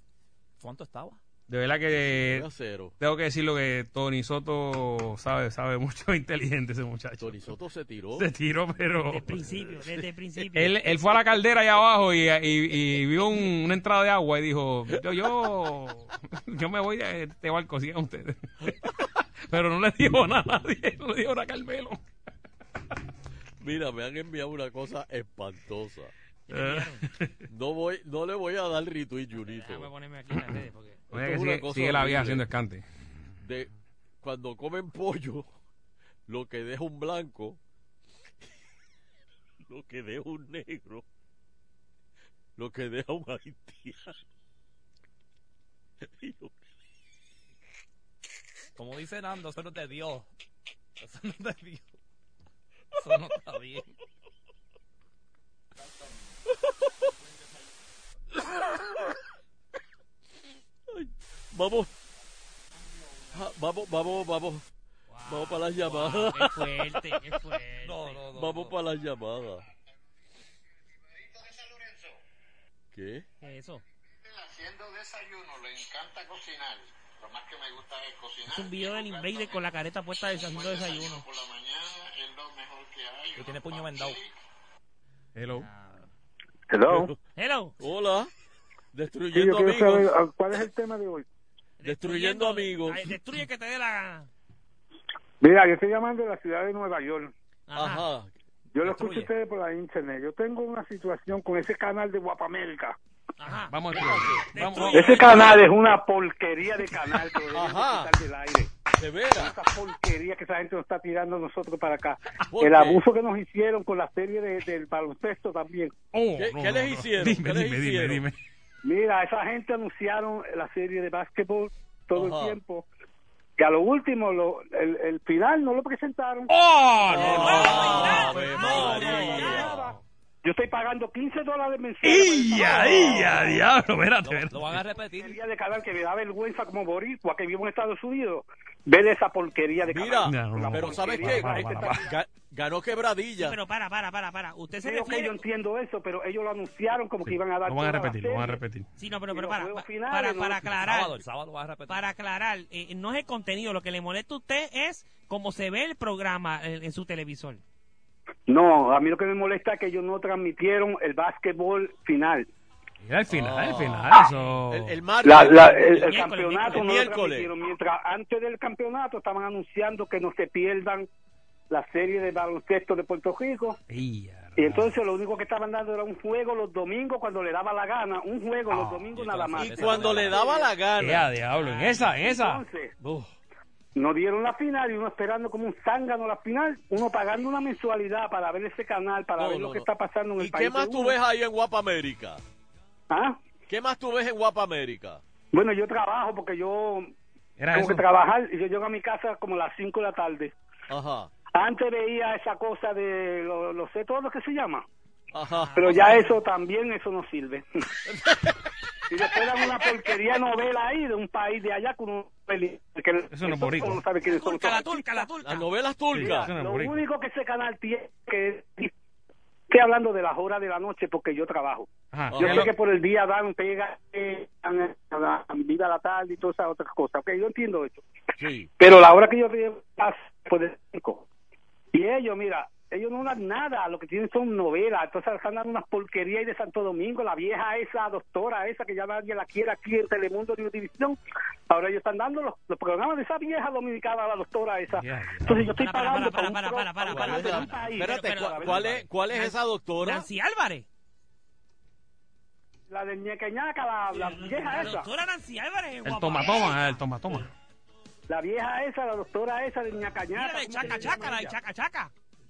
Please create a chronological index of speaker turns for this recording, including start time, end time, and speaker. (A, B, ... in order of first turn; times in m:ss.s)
0:00.6-0:01.2 A
0:01.5-0:02.5 B
0:01.9-0:03.0 C
0:03.0-0:07.5 B
0:07.2-0:08.3 C
0:08.2-0:09.4 B
0:09.0-0:10.8 D
0:09.6-0:09.9 C
0:10.5-0:18.4 B
0:19.5-0:22.0 B
0:23.6-0:26.1 C
0:26.5-0:27.0 D
0:26.5-0:27.4 B
0:27.5-0:29.9 C
0:29.4-0:31.1 D
0:31.1-0:32.8 B
0:31.1-0:32.4 C
0:33.4-0:33.7 C
0:34.2-0:35.5 C
0:36.3-0:37.6 C
0:39.6-0:41.0 C
0:42.6-0:44.2 C
0:46.0-0:46.5 C
0:48.8-0:50.3 A
0:51.0-0:51.8 A
0:53.0-0:53.9 A
1:00.9-1:01.9 C
1:03.3-1:04.6 C
1:05.1-1:08.2 D
1:05.2-1:06.9 C
1:07.8-1:08.8 A
1:08.3-1:09.6 C
1:11.1-1:12.1 E
1:12.9-1:13.2 C
1:13.4-1:13.8 D
1:14.2-1:19.6 E
1:18.5-1:21.2 D
1:20.5-1:24.2 E
1:23.3-1:24.2 A
1:25.3-1:25.7 B
1:25.5-1:26.1 D
1:26.7-1:27.0 F
1:26.8-1:27.2 C
1:27.3-1:27.7 D
1:27.8-1:28.3 C
1:28.9-1:30.1 C
1:29.3-1:31.2 F
1:31.8-1:34.3 D
1:31.8-1:33.1 C
1:35.4-1:37.3 F
1:37.7-1:38.0 D
1:37.7-1:38.3 C
1:38.7-1:43.0 F
1:38.8-1:39.3 A
1:43.4-1:45.6 D
1:43.7-1:45.3 B
1:45.0-1:48.7 F
1:47.5-1:48.1 C
1:49.0-1:49.6 C
1:49.4-1:55.9 F
1:52.5-1:53.0 C
1:56.1-1:58.4 B
1:56.4-1:58.2 C
1:58.8-2:02.8 F
2:02.1-2:02.6 C
2:03.6-2:06.5 F
2:06.5-2:07.8 B
2:07.1-2:09.8 C
2:07.2-2:09.7 D
2:07.2-2:09.8 A
2:10.4-2:13.4 F
2:12.0-2:14.7 B
2:14.2-2:15.4 A
2:15.1-2:22.0 F
2:19.8-2:23.6 C
2:20.2-2:22.0 B
2:23.4-2:25.4 D
2:24.8-2:28.6 F
2:27.2-2:28.9 B
2:29.0-2:31.2 D
2:29.3-2:30.6 F
2:30.7-2:32.1 A
2:31.9-2:37.6 D
2:38.5-2:42.4 F
2:43.0-2:45.0 B
2:43.3-2:47.5 C
2:44.3-2:44.6 D
2:45.2-2:51.1 F
2:46.0-2:46.9 D
2:51.7-2:53.8 F
2:53.9-2:54.9 B
2:54.6-3:00.6 F
2:58.7-3:00.5 A
2:59.6-3:01.3 C
3:01.0-3:02.6 B
3:01.6-3:01.9 D
3:02.2-3:02.9 F
3:04.0-3:11.1 F
3:09.4-3:09.9 C
3:10.4-3:12.4 C
3:13.1-3:13.4 F
3:13.7-3:15.2 C
3:15.5-3:17.1 F
3:17.6-3:18.1 B
3:17.7-3:20.5 F
3:20.9-3:21.3 C
3:21.5-3:24.8 F
3:25.3-3:26.1 C
3:25.6-3:26.3 D
3:25.8-3:27.7 F
3:28.1-3:28.4 C
3:29.1-3:35.2 F
3:33.3-3:34.1 B
3:34.2-3:35.7 D
3:35.4-3:36.5 C
3:36.1-3:37.0 B
3:36.5-3:38.9 F
3:39.7-3:41.9 F
3:42.1-3:42.7 B
3:42.3-3:42.7 C
3:42.4-3:48.0 F
3:48.4-3:48.7 C
3:48.8-3:51.2 F
3:51.9-4:01.2 F
4:01.7-4:08.8 F
4:04.9-4:05.7 B
4:05.6-4:10.8 D
4:07.0-4:10.3 C
4:12.9-4:15.1 F
4:14.1-4:17.0 D
4:16.0-4:17.5 B
4:18.3-4:21.6 F
4:20.3-4:22.1 D